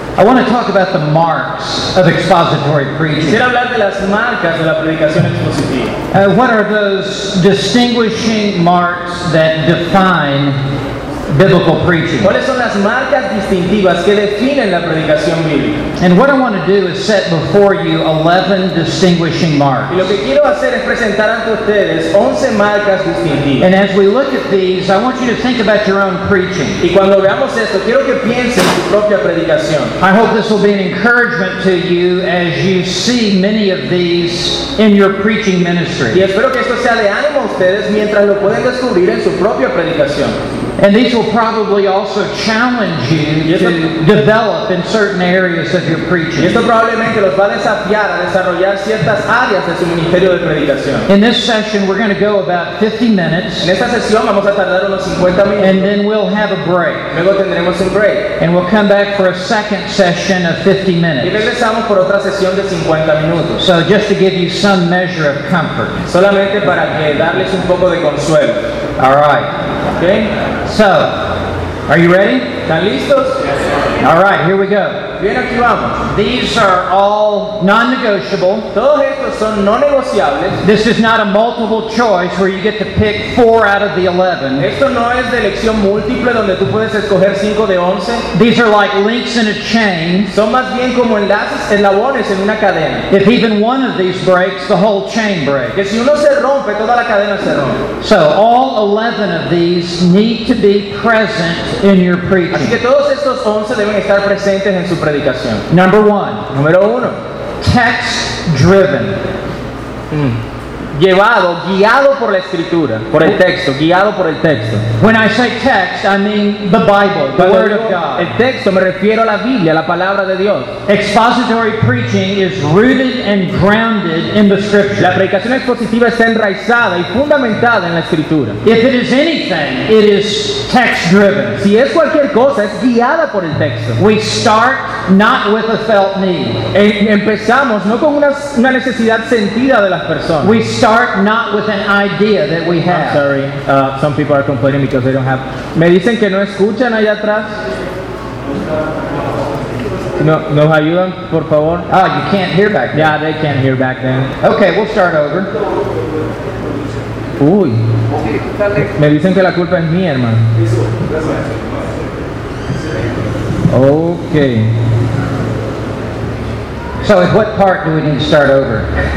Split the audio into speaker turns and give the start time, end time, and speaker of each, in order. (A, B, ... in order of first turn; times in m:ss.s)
0:00.2-0:03.4 A
0:03.2-0:06.0 B
0:06.1-0:10.6 A
0:11.3-0:12.3 A
0:12.2-0:15.8 B
0:16.0-0:20.1 A
0:19.9-0:23.7 B
0:23.6-0:26.8 A
0:26.8-0:29.9 B
0:30.0-0:36.2 A
0:36.1-0:40.4 B
0:40.8-0:46.6 A
0:43.4-0:43.8 B
0:46.4-0:51.1 B
0:51.1-0:53.7 A
0:53.6-0:55.8 B
0:55.6-0:57.1 A
0:57.1-0:58.3 B
0:58.4-1:01.5 A
1:01.2-1:03.6 B
1:03.6-1:06.0 A
1:06.1-1:08.6 B
1:09.0-1:09.5 A
1:10.0-1:10.3 B
1:10.6-1:11.2 A
1:11.9-1:12.5 A
1:12.7-1:13.4 B
1:14.0-1:15.0 A
1:15.2-1:16.0 B
1:16.1-1:18.7 A
1:18.7-1:20.6 B
1:20.6-1:24.7 A
1:24.6-1:28.3 B
1:28.3-1:30.3 A
1:30.3-1:33.1 B
1:33.1-1:35.8 A
1:35.8-1:37.8 B
1:38.0-1:42.8 A
1:42.5-1:45.6 B
1:45.7-1:46.4 A
1:46.5-1:47.2 B
1:47.6-1:49.2 A
1:50.1-1:50.4 B
1:51.0-1:54.8 B
1:55.0-1:58.3 A
1:57.4-2:00.7 B
2:00.9-2:05.2 A
2:05.0-2:08.6 B
2:08.6-2:11.6 A
2:11.6-2:14.0 B
2:14.0-2:16.6 A
2:16.7-2:20.5 B
2:20.4-2:23.2 A
2:22.9-2:27.6 B
2:30.2-2:31.8 B
2:31.9-2:33.1 A
2:32.9-2:34.3 B
2:34.4-2:35.5 A
2:37.4-2:37.8 B
2:38.8-2:40.4 B
2:43.7-2:44.7 B
2:47.0-2:48.9 A